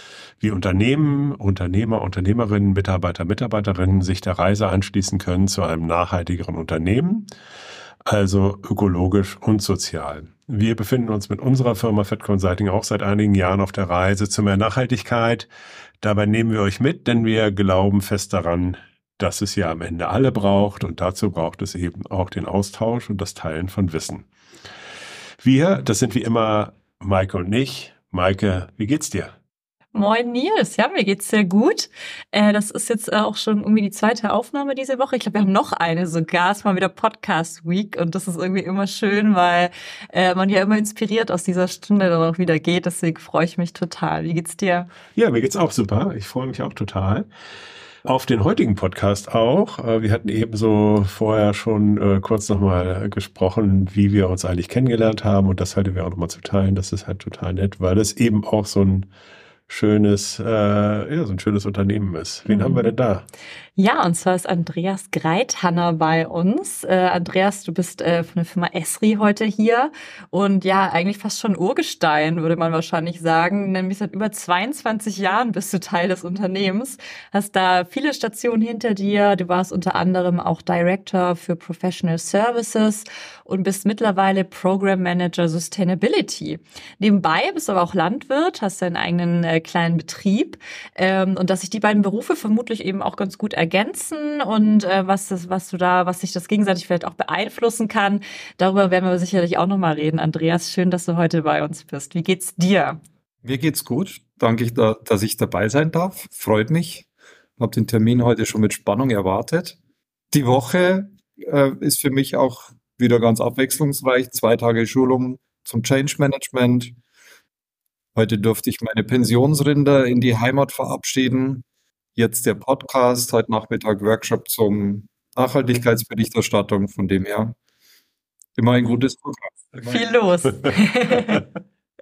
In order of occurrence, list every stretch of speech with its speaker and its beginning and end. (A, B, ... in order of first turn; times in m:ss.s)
0:00.4-0:07.3 A
0:08.1-0:15.5 A
0:16.0-0:24.3 A
0:25.4-0:29.3 A
0:29.9-0:44.9 B
0:45.1-0:47.3 A
0:48.0-0:59.1 A
0:59.7-1:03.2 A
1:02.5-1:02.9 B
1:03.8-1:43.0 B
1:43.4-1:47.1 C
1:47.6-1:49.8 C
1:50.3-1:57.0 C
1:58.1-2:01.6 C
2:02.2-2:07.6 C
2:08.6-2:10.1 C
2:09.8-2:11.4 B